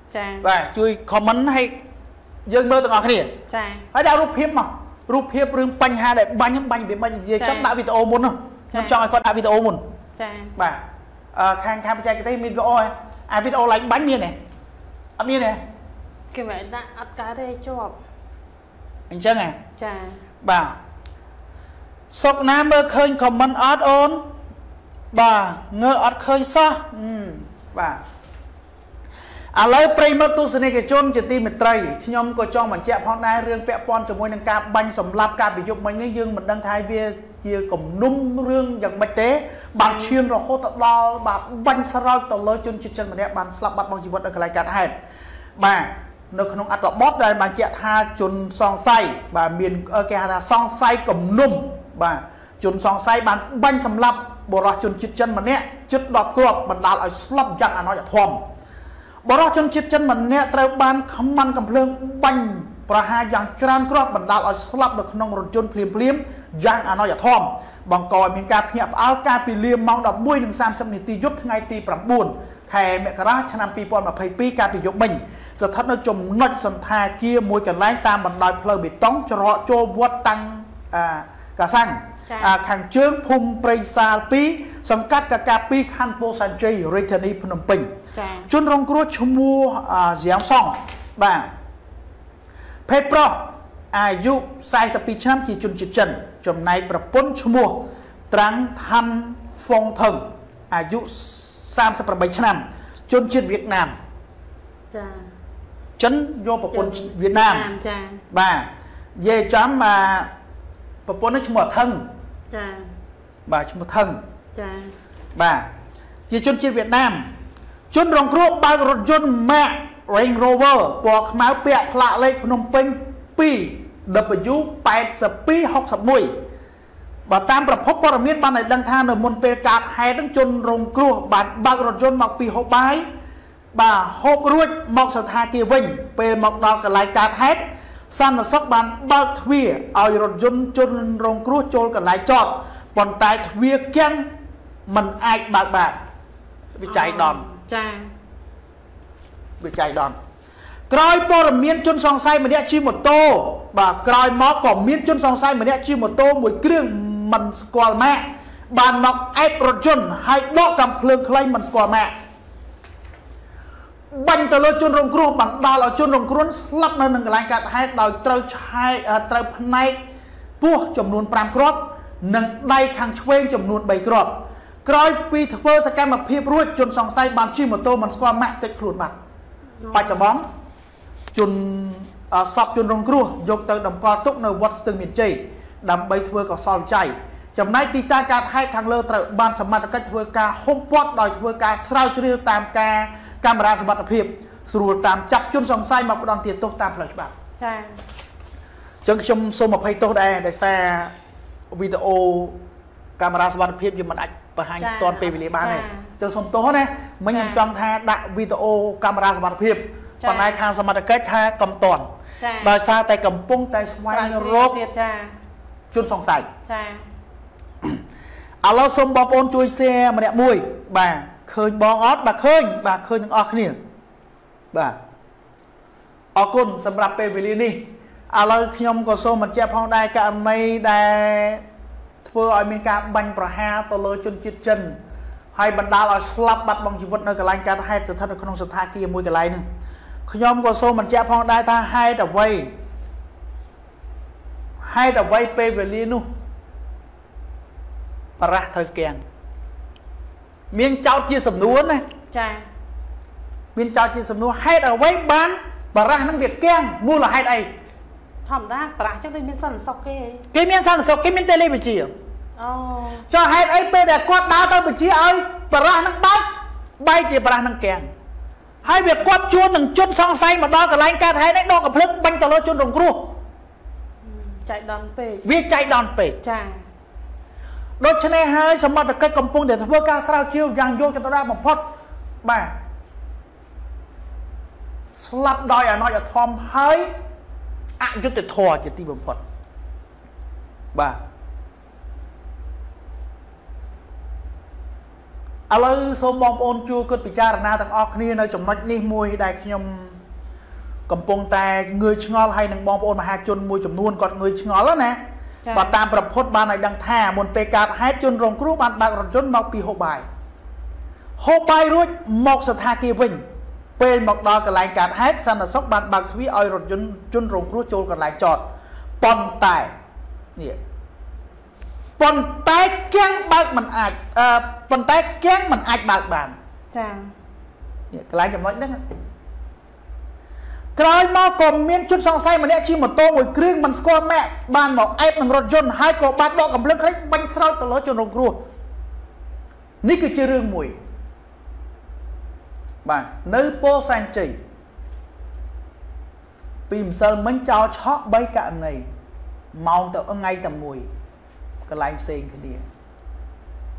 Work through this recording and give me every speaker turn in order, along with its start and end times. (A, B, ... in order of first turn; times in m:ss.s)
0:00.1-0:00.5 A
0:00.4-0:01.8 B
0:02.5-0:03.4 B
0:03.5-0:03.9 A
0:03.9-0:09.8 B
0:07.4-0:07.7 A
0:08.7-0:09.0 A
0:10.2-0:10.5 A
0:10.6-0:10.8 B
0:11.3-0:14.4 B
0:15.2-0:15.6 B
0:16.3-0:18.0 A
0:19.1-0:19.6 B
0:19.8-0:20.2 A
0:20.4-0:20.8 B
0:22.1-0:24.3 B
0:25.1-0:28.0 B
0:29.5-0:45.0 B
0:39.8-0:40.2 A
0:45.6-0:58.4 B
0:59.2-1:27.9 B
1:22.3-1:22.6 A
1:28.1-1:28.5 A
1:28.5-1:31.5 B
1:32.9-1:44.0 B
1:44.9-1:45.3 A
1:46.0-1:47.7 B
1:46.7-1:48.2 A
1:48.3-1:50.3 B
1:51.1-1:52.1 B
1:52.5-1:52.9 A
1:53.5-1:54.2 B
1:54.6-1:54.9 A
1:55.4-1:55.7 B
1:56.3-1:57.3 B
1:57.9-2:06.3 B
2:07.3-2:13.0 B
2:13.7-2:24.3 B
2:24.9-2:26.0 B
2:26.8-2:27.4 B
2:26.9-2:28.1 A
2:29.6-2:30.2 B
2:30.9-2:42.1 B
2:44.1-2:50.0 B
2:50.6-2:59.2 B
2:59.8-3:00.2 A
2:59.9-3:00.5 B
3:01.3-3:17.3 B
3:17.6-3:18.0 A
3:19.0-3:21.1 B
3:21.7-3:22.6 B
3:23.2-3:32.1 B
3:24.8-3:26.1 A
3:27.3-3:27.6 A
3:30.2-3:30.6 A
3:32.4-3:32.8 A
3:32.6-3:34.8 B
3:34.1-3:35.4 A
3:35.9-3:36.5 B
3:36.7-3:37.1 A
3:38.6-3:43.8 B
3:44.7-3:45.0 B
3:46.4-3:51.6 B
3:52.2-3:55.0 B
3:55.6-3:59.6 B
4:00.3-4:02.7 B
4:04.8-4:06.3 B
4:08.4-4:09.2 B
4:10.7-4:12.0 B
4:12.3-4:12.7 A
4:13.8-4:17.7 B
4:18.4-4:20.4 A
4:20.5-4:22.1 B
4:22.6-4:23.3 A
4:23.3-4:26.5 B
4:27.0-4:28.1 B
4:28.8-4:29.2 A
4:28.8-4:33.4 B
4:34.2-4:35.4 A
4:35.4-4:36.4 B
4:36.4-4:36.8 A
4:38.0-4:41.9 B
4:42.4-4:42.7 B
4:45.2-4:47.1 B
4:48.0-4:49.4 B
4:55.7-5:00.2 B
5:01.1-5:05.2 B
5:05.6-5:06.0 A
5:05.7-5:10.2 B
5:11.4-5:13.4 B
5:14.0-5:18.7 B
5:19.2-5:19.9 B
5:22.2-5:26.6 B
5:26.9-5:27.3 A
5:28.1-5:29.0 B
5:31.0-5:38.6 B
5:40.0-5:41.0 B
5:43.0-5:44.6 B
5:46.9-5:49.1 B
5:49.7-5:51.1 B
5:51.9-5:52.8 B